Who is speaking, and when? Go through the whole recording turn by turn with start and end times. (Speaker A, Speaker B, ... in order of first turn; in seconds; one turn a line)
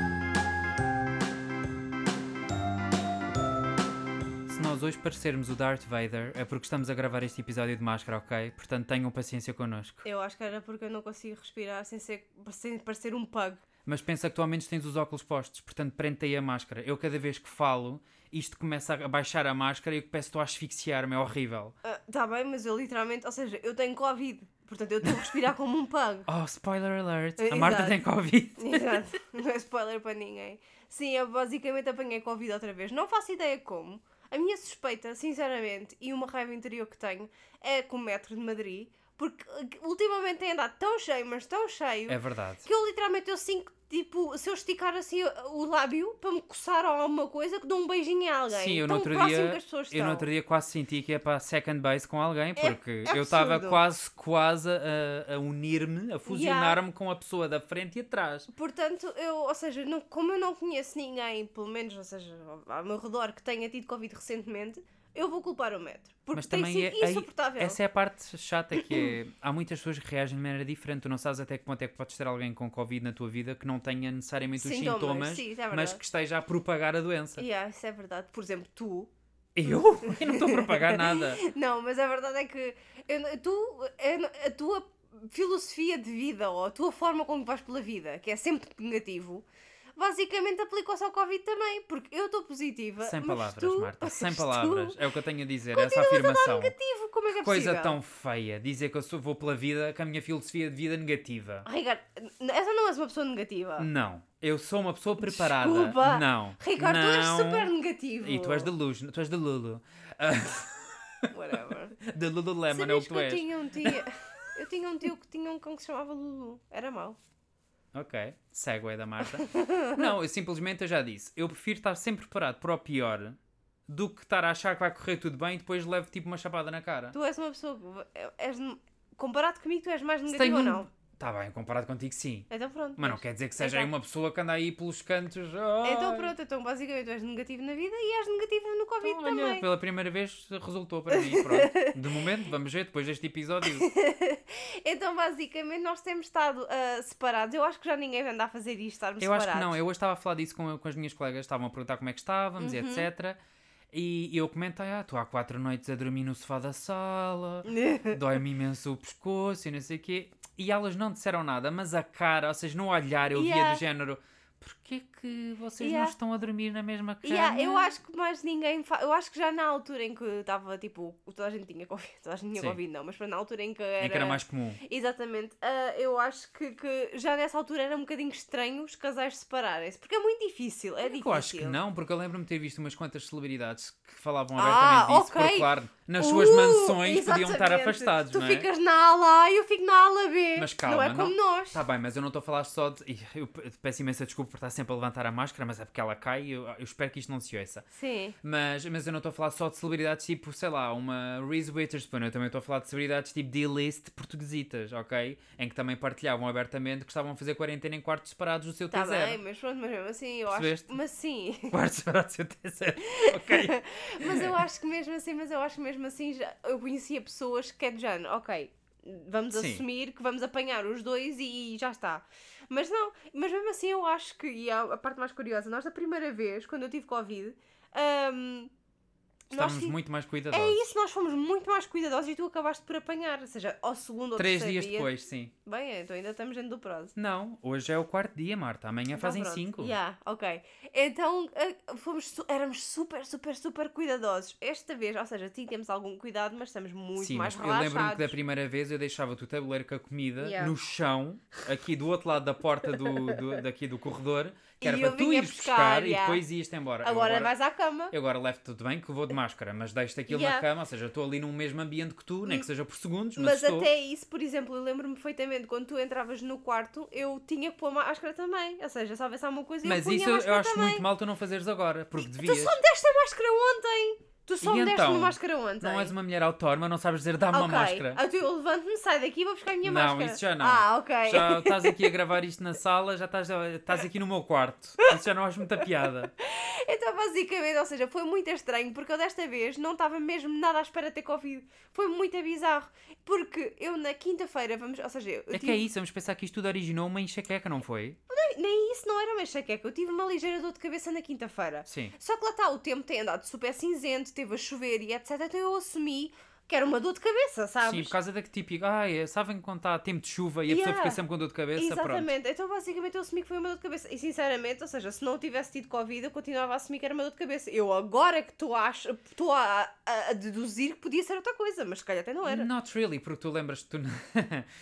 Speaker A: 4.5-10.0
Speaker B: 10.0-13.6
Speaker A: 13.9-21.8
Speaker B: 21.8-26.3
Speaker A: 26.3-29.0
Speaker B: 27.4-28.0
Speaker B: 28.6-50.3
Speaker A: 42.1-42.7
Speaker A: 48.5-58.5
Speaker B: 52.6-53.8
Speaker B: 56.3-56.8
Speaker B: 58.5-67.8
Speaker A: 66.3-77.5
Speaker B: 74.6-76.0
Speaker B: 77.4-79.1
Speaker A: 79.6-81.4
Speaker B: 79.7-89.5
Speaker B: 90.0-95.0
Speaker A: 93.0-96.7
Speaker B: 95.7-98.0
Speaker A: 97.3-101.7
Speaker B: 101.7-103.9
Speaker A: 103.8-111.3
Speaker B: 105.2-108.7
Speaker B: 111.3-112.0
Speaker A: 112.0-114.0
Speaker B: 112.7-117.2
Speaker A: 117.9-127.2
Speaker B: 119.3-120.1
Speaker B: 127.1-130.9
Speaker A: 130.3-136.3
Speaker B: 132.5-133.9
Speaker B: 135.8-139.7
Speaker A: 139.0-143.9
Speaker B: 141.1-142.0
Speaker B: 143.7-149.8
Speaker A: 149.2-153.4
Speaker B: 152.6-153.1
Speaker A: 153.9-167.9
Speaker B: 157.7-158.2
Speaker B: 163.3-163.8
Speaker B: 165.8-166.1
Speaker B: 167.2-181.8
Speaker A: 174.0-174.8
Speaker A: 181.1-188.7
Speaker B: 184.6-191.8
Speaker A: 190.6-197.8
Speaker B: 197.9-198.3
Speaker A: 198.4-209.4
Speaker B: 208.9-211.8
Speaker A: 210.5-210.9
Speaker A: 211.7-214.6
Speaker B: 213.1-228.7
Speaker A: 219.5-219.8
Speaker B: 229.5-230.0
Speaker A: 229.5-230.8
Speaker B: 230.5-235.1
Speaker A: 234.4-235.5
Speaker B: 235.7-237.1
Speaker A: 237.2-240.0
Speaker B: 239.1-248.3
Speaker A: 247.2-257.5
Speaker B: 250.4-250.7
Speaker B: 253.0-253.4
Speaker B: 254.8-256.4
Speaker B: 257.0-258.1
Speaker A: 258.1-263.9
Speaker B: 260.3-260.7
Speaker B: 263.4-271.1
Speaker A: 269.8-272.8
Speaker B: 272.2-276.1
Speaker A: 274.6-278.2
Speaker B: 277.5-282.1
Speaker A: 279.9-286.3
Speaker B: 286.4-295.9
Speaker A: 295.5-298.2
Speaker B: 298.3-308.1
Speaker A: 301.9-302.1
Speaker A: 307.8-312.3
Speaker B: 310.7-311.2
Speaker B: 311.8-322.7
Speaker A: 322.5-324.7